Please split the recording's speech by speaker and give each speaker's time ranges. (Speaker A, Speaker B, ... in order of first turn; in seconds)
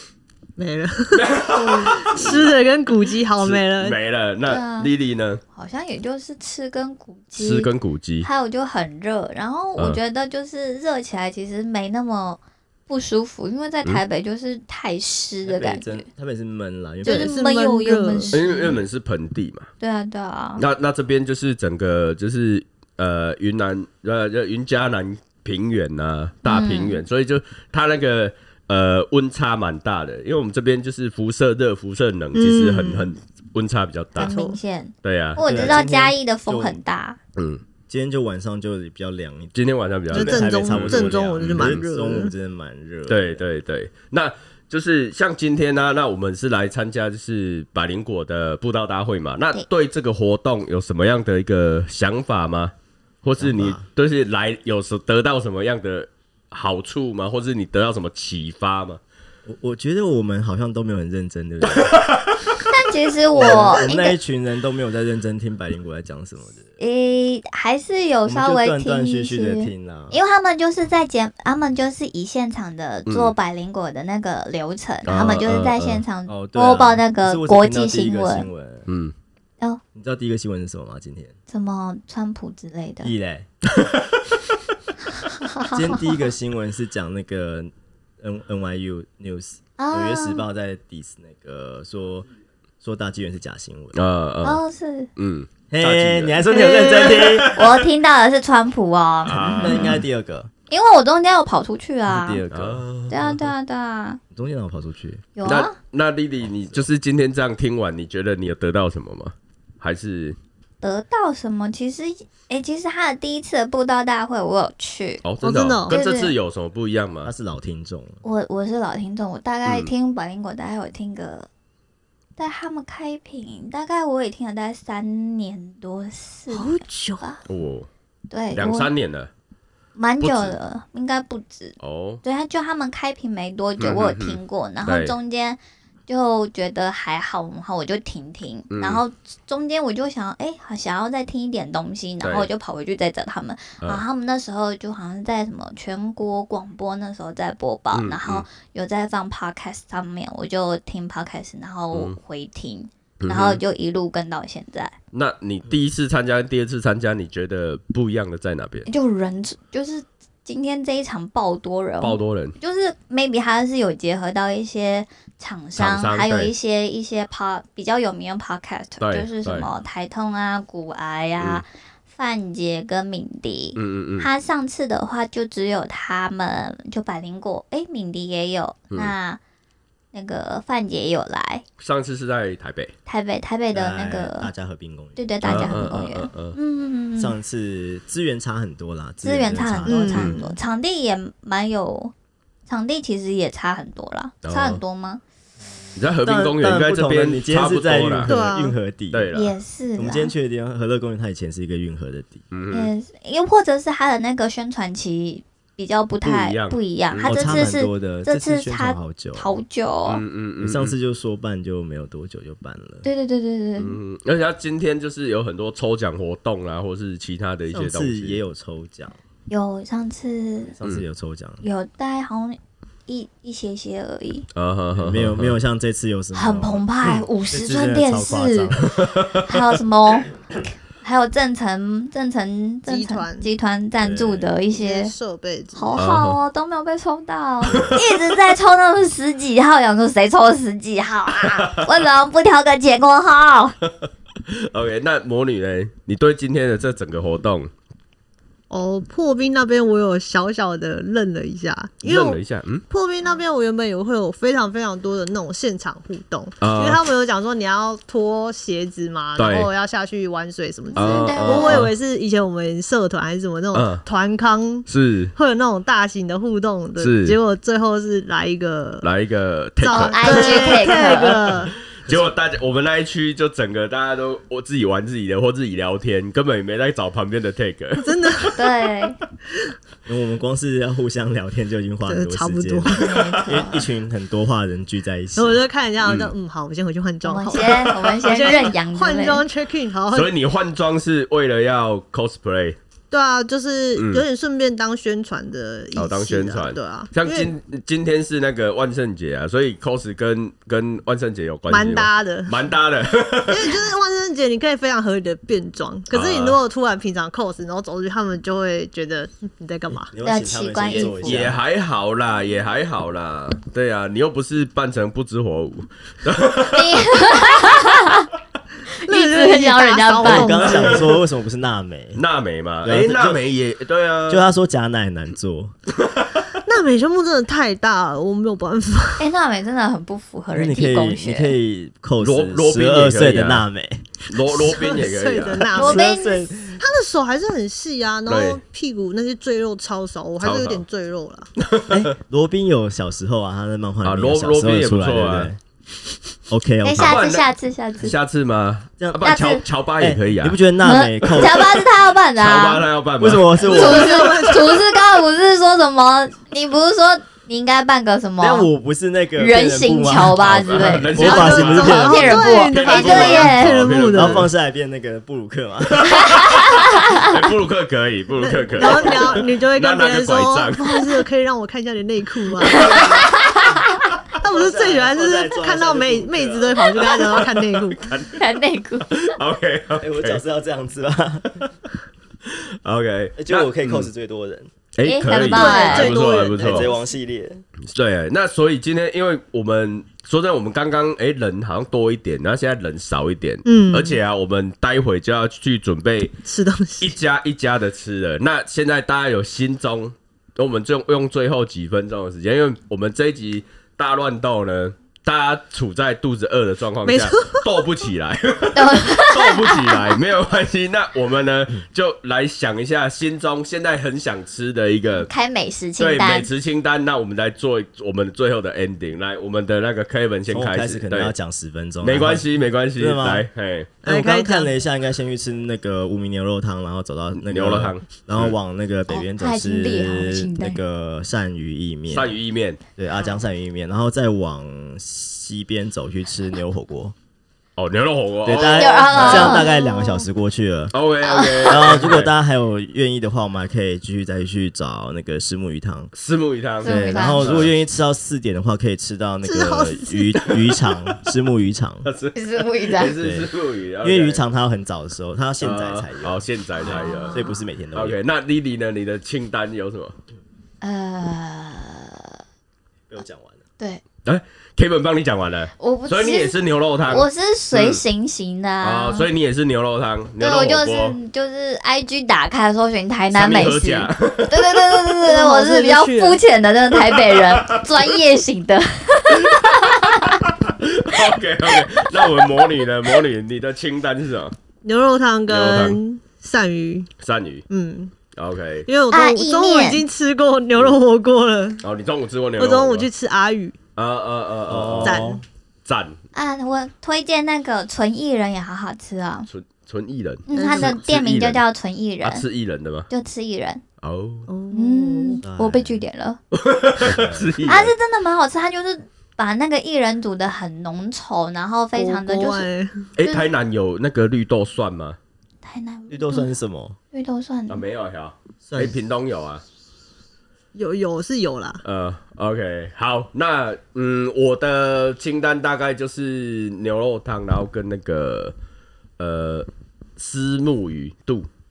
Speaker A: 0.6-4.0, 17.0-18.5, 32.3-33.1, 34.2-34.6, 40.1-42.3, 96.5-97.3, 115.4-116.0, 126.5-127.4, 189.8-190.6, 198.3-198.8, 232.9-233.5, 234.7-236.0, 248.7-269.1, 269.8-271.7, 278.0-278.6, 282.1-283.4, 285.4-290.3, 293.1-297.5, 301.7-302.6, 303.5-310.1, 319.1-321.0, 326.6-329.3, 334.6-336.1, 336.8-341.5, 353.7-354.7, 361.2-364.5, 368.4-372.9, 374.4-378.0, 385.3-386.9, 393.6-394.2, 396.4-397.1, 407.1-407.6, 424.0-424.7, 449.4-450.4, 475.2-476.4, 484.8-487.1, 487.7-488.1, 488.9-491.8, 492.6-493.8, 495.0-495.4, 500.5-501.1, 504.5-505.4, 511.9-513.1, 520.7-521.8
Speaker B: 1.1-2.5, 3.4-5.4, 7.3-8.3, 18.3-19.7, 20.6-34.4, 35.0-35.8, 37.4-37.6, 39.5-41.9, 43.1-59.0, 61.7-62.4, 73.1-73.3, 75.0-76.0, 78.9-79.1, 83.7-84.3, 93.9-94.6, 95.2-97.8, 99.2-100.0, 102.5-103.5, 105.4-110.4, 115.2-117.3, 119.7-119.9, 127.5-127.9, 128.5-129.3, 130.2-130.6, 131.8-132.2, 133.8-135.1, 138.7-139.0, 142.2-142.5, 147.9-148.4, 153.2-153.6, 155.1-158.9, 162.0-162.6, 165.8-166.5, 169.0-169.7, 173.8-174.3, 181.8-182.9, 185.4-186.6, 194.4-194.8, 195.9-198.3, 199.1-199.5, 202.5-202.9, 206.2-207.7, 210.1-210.9, 213.8-218.4, 224.5-225.6, 228.9-229.4, 236.0-236.4, 237.7-238.0, 241.4-241.8, 243.9-247.7, 252.0-252.8, 256.6-257.0, 259.4-259.7, 260.9-261.9, 263.7-264.1, 264.9-265.3, 267.0-267.4, 269.0-271.2, 271.9-278.6, 283.1-283.6, 286.0-286.3, 287.6-287.9, 290.1-292.8, 293.9-294.2, 295.9-303.8, 306.1-306.6, 311.1-317.4, 322.1-324.5, 325.9-326.6, 332.2-333.7, 334.3-335.8, 338.2-338.6, 340.4-340.8, 341.6-342.1, 344.0-345.5, 346.9-347.5, 348.0-350.6, 352.4-353.9, 360.4-364.5, 365.9-371.2, 377.9-378.4, 379.1-380.4, 382.4-384.1, 384.9-386.9, 387.9-396.4, 397.0-415.3, 416.0-421.3, 422.0-423.9, 427.3-428.5, 432.1-432.8, 437.8-439.6, 440.9-442.3, 446.1-447.7, 450.4-451.1, 452.0-454.4, 455.6-457.4, 457.9-460.1, 464.2-468.0, 468.8-471.1, 473.3-474.9, 477.3-477.9, 479.6-484.6, 485.5-486.0, 487.2-487.6, 488.3-488.9, 491.8-493.1, 493.9-495.3, 495.8-496.2, 499.5-501.6, 502.2-503.1, 504.0-504.5, 506.5-507.9, 513.2-515.2, 517.7-519.6, 521.8-528.5, 529.2-531.5
Speaker C: 1.6-1.9, 4.5-4.9, 5.5-7.7, 8.2-16.0, 17.0-18.8, 19.8-20.6, 26.4-27.0, 34.2-37.2, 62.6-64.2, 66.8-78.5, 81.5-83.1, 85.4-86.1, 89.8-90.5, 94.4-95.1, 97.5-100.0, 100.7-102.4, 103.1-104.2, 105.3-105.7, 110.8-115.2, 115.9-116.3, 118.2-121.5, 122.4-127.4, 128.3-128.9, 129.9-154.9, 158.9-179.4, 180.1-181.6, 183.1-184.5, 185.2-187.3, 189.2-192.1, 192.7-195.2, 199.3-200.3, 202.7-210.2, 213.0-214.0, 219.5-220.7, 221.6-224.5, 226.3-235.1, 235.7-243.8, 260.9-261.8, 269.9-271.5, 278.6-279.1, 283.0-283.9, 287.2-289.4, 310.2-311.5, 316.7-318.3, 319.1-320.8, 329.2-331.6, 335.7-336.5, 346.8-348.1, 349.2-349.6, 350.8-352.9, 353.6-358.7, 359.4-363.9, 366.3-367.1, 372.8-373.5, 378.3-379.3, 385.0-386.1, 408.7-410.1, 415.3-416.5, 429.1-430.8, 438.7-440.2, 441.2-441.9, 446.8-447.6, 452.4-453.1, 456.8-457.5, 460.8-462.4, 465.8-466.6, 467.1-469.3, 470.4-480.3, 489.1-490.0, 496.3-499.5, 500.5-502.4, 503.1-503.8, 504.7-506.4, 507.6-512.7, 513.2-513.5, 515.6-516.5, 517.1-517.8
Speaker D: 15.4-17.4, 35.4-36.8, 37.9-39.6, 40.1-43.4, 53.4-53.8, 59.5-62.0, 63.3-66.6, 68.2-70.2, 76.3-78.9, 79.9-81.3, 83.0-83.5, 85.7-92.3, 92.8-94.0, 95.7-97.5, 99.5-100.5, 102.1-102.9, 104.3-105.2, 106.4-106.9, 117.2-118.2, 183.7-186.0, 187.2-190.3, 196.2-199.3, 199.9-202.4, 207.2-209.6, 210.6-213.1, 217.7-219.2, 220.7-221.6, 225.0-228.9, 237.7-237.9, 272.1-272.3, 280.1-285.6, 310.1-311.6, 320.2-322.2, 322.8-323.4, 324.3-325.7, 330.5-334.8, 335.7-336.8, 341.9-345.6, 346.5-347.2, 349.0-351.6, 353.2-354.3, 358.4-362.4, 364.0-366.3, 368.8-369.1, 374.4-377.0, 380.0-381.6, 383.4-384.7, 386.1-387.6, 420.5-423.5, 424.0-432.4, 433.0-437.1, 438.4-440.9, 441.6-446.1, 446.8-452.1, 453.2-453.5, 454.0-456.4, 457.3-458.2, 463.1-463.6, 494.7-495.4, 505.4-506.0, 507.0-507.6, 516.1-517.0, 518.6-519.0